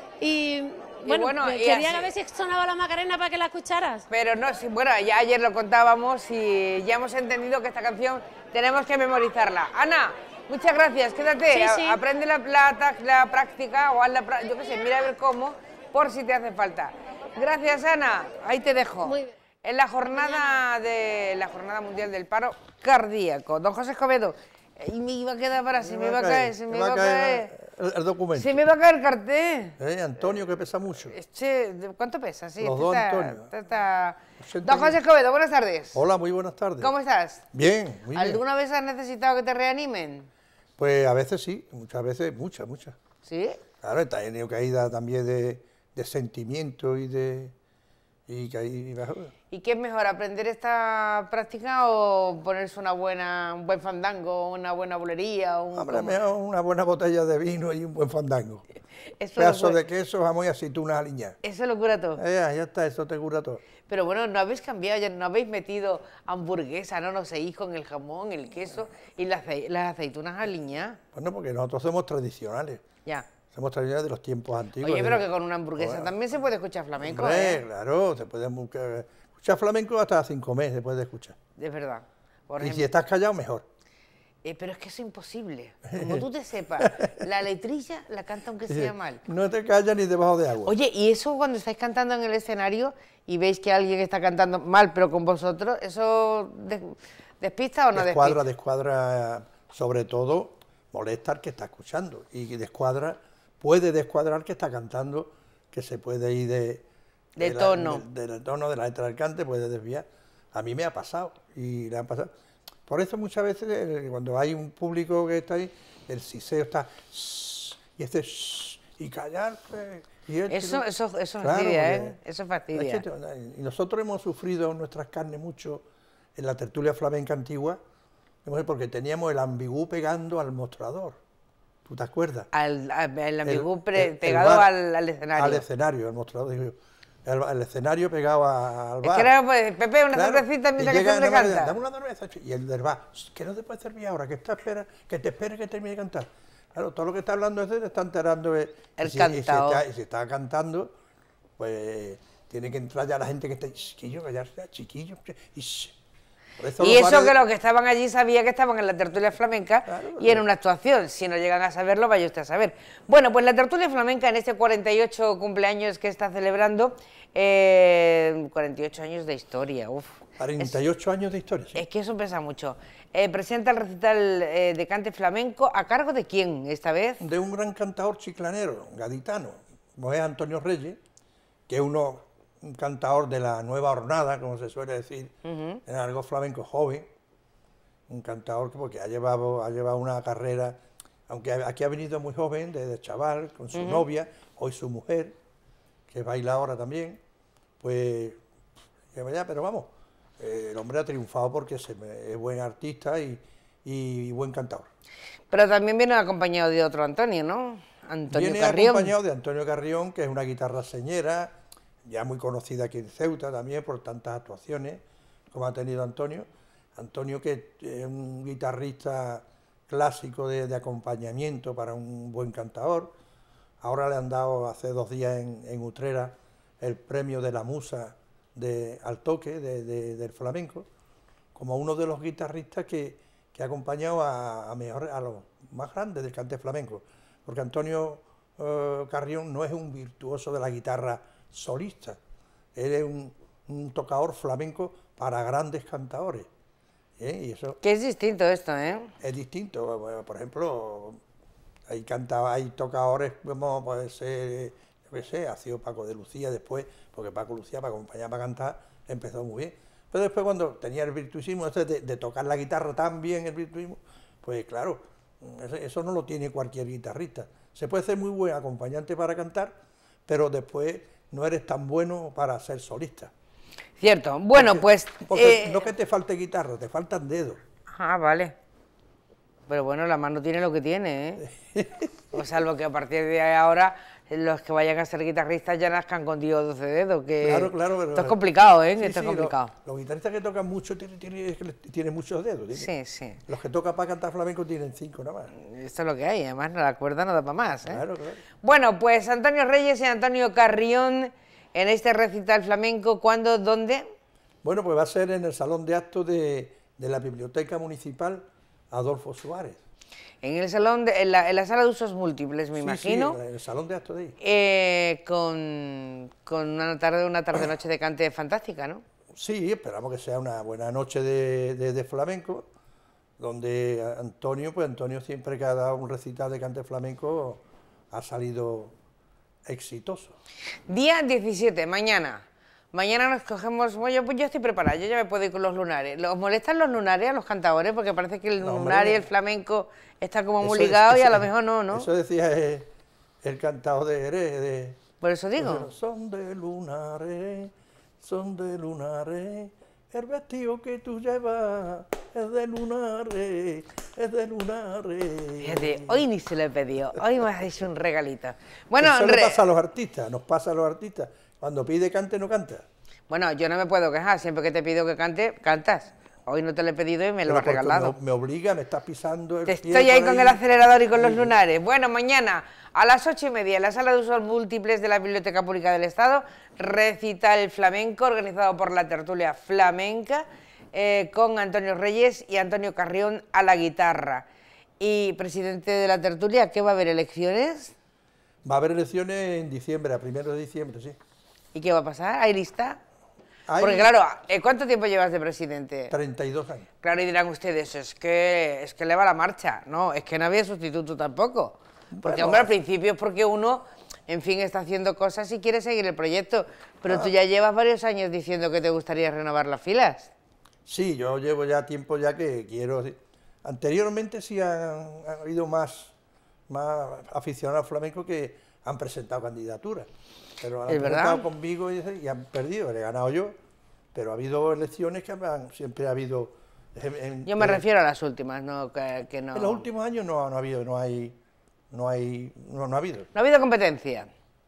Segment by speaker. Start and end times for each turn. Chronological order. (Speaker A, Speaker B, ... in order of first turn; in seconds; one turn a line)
Speaker A: 0.2-4.1
Speaker B: 1.0-2.1
Speaker B: 4.1-27.5
Speaker A: 11.5-12.0
Speaker A: 19.0-19.3
Speaker A: 20.1-20.6
Speaker C: 25.8-28.6
Speaker B: 28.4-29.8
Speaker C: 29.8-31.2
Speaker B: 30.9-36.0
Speaker C: 32.6-33.5
Speaker C: 34.4-35.0
Speaker C: 35.9-36.9
Speaker B: 36.8-37.5
Speaker C: 37.5-38.4
Speaker B: 38.1-40.3
Speaker C: 40.8-43.0
Speaker B: 43.2-43.6
Speaker C: 43.8-47.5
Speaker C: 48.3-49.3
Speaker B: 49.5-56.2
Speaker C: 55.7-58.6
Speaker B: 59.2-59.8
Speaker C: 59.4-61.4
Speaker B: 61.4-62.2
Speaker C: 62.2-63.6
Speaker B: 63.9-71.0
Speaker C: 71.1-72.8
Speaker C: 73.5-76.1
Speaker B: 74.8-77.6
Speaker C: 77.0-81.4
Speaker B: 81.6-82.9
Speaker C: 82.6-83.7
Speaker B: 84.4-89.2
Speaker C: 85.9-86.3
Speaker C: 86.8-87.1
Speaker C: 88.7-90.7
Speaker B: 90.7-98.4
Speaker C: 97.9-106.8
Speaker B: 107.4-108.0
Speaker C: 107.4-112.3
Speaker C: 112.9-120.9
Speaker B: 120.5-123.0
Speaker C: 121.4-122.2
Speaker C: 122.7-127.8
Speaker C: 128.4-131.2
Speaker C: 131.9-132.5
Speaker B: 132.5-135.7
Speaker C: 133.4-134.7
Speaker C: 135.4-139.3
Speaker B: 139.0-141.8
Speaker C: 140.1-150.9
Speaker B: 149.0-149.8
Speaker C: 151.6-156.0
Speaker C: 156.6-157.4
Speaker B: 156.8-170.8
Speaker C: 159.9-160.4
Speaker C: 170.4-171.8
Speaker B: 171.7-177.2
Speaker C: 177.2-181.0
Speaker C: 181.7-185.3
Speaker B: 185.4-185.8
Speaker C: 185.9-187.1
Speaker C: 188.1-195.4
Speaker B: 193.7-194.1
Speaker C: 196.1-197.2
Speaker C: 197.8-198.4
Speaker C: 199.1-204.9
Speaker B: 205.5-209.1
Speaker C: 208.3-223.1
Speaker C: 223.8-230.9
Speaker C: 231.6-242.2
Speaker C: 242.8-246.5
Speaker C: 247.2-247.8
Speaker B: 247.8-249.1
Speaker C: 249.2-251.2
Speaker C: 251.9-273.3
Speaker B: 274.0-275.9
Speaker C: 274.5-277.6
Speaker B: 277.9-278.6
Speaker B: 279.7-281.4
Speaker C: 281.4-282.4
Speaker B: 282.3-289.7
Speaker C: 287.4-288.4
Speaker C: 289.0-292.9
Speaker B: 292.7-293.4
Speaker C: 293.5-295.5
Speaker B: 295.5-298.0
Speaker C: 297.9-298.4
Speaker B: 298.6-304.1
Speaker C: 304.6-309.8
Speaker B: 310.4-313.4
Speaker C: 312.8-314.4
Speaker B: 314.4-319.0
Speaker C: 319.3-322.7
Speaker C: 323.4-328.9
Speaker C: 329.7-330.4
Speaker B: 330.9-342.1
Speaker C: 338.6-339.3
Speaker C: 340.6-342.9
Speaker C: 343.4-345.0
Speaker B: 345.2-345.9
Speaker C: 345.6-356.2
Speaker B: 355.6-359.6
Speaker C: 359.0-362.9
Speaker B: 363.3-368.1
Speaker C: 367.4-371.6
Speaker B: 369.7-384.5
Speaker B: 385.0-387.9
Speaker C: 388.6-391.2
Speaker B: 391.7-393.0
Speaker C: 393.7-394.1
Speaker B: 393.8-396.1
Speaker C: 396.1-396.9
Speaker B: 397.0-410.3
Speaker C: 402.2-402.7
Speaker C: 407.1-407.3
Speaker C: 410.9-416.1
Speaker C: 416.7-420.1
Speaker C: 420.6-423.6
Speaker B: 420.9-421.5
Speaker C: 424.1-427.8
Speaker B: 427.5-429.9
Speaker C: 429.5-431.4
Speaker C: 431.9-433.3
Speaker B: 433.3-434.3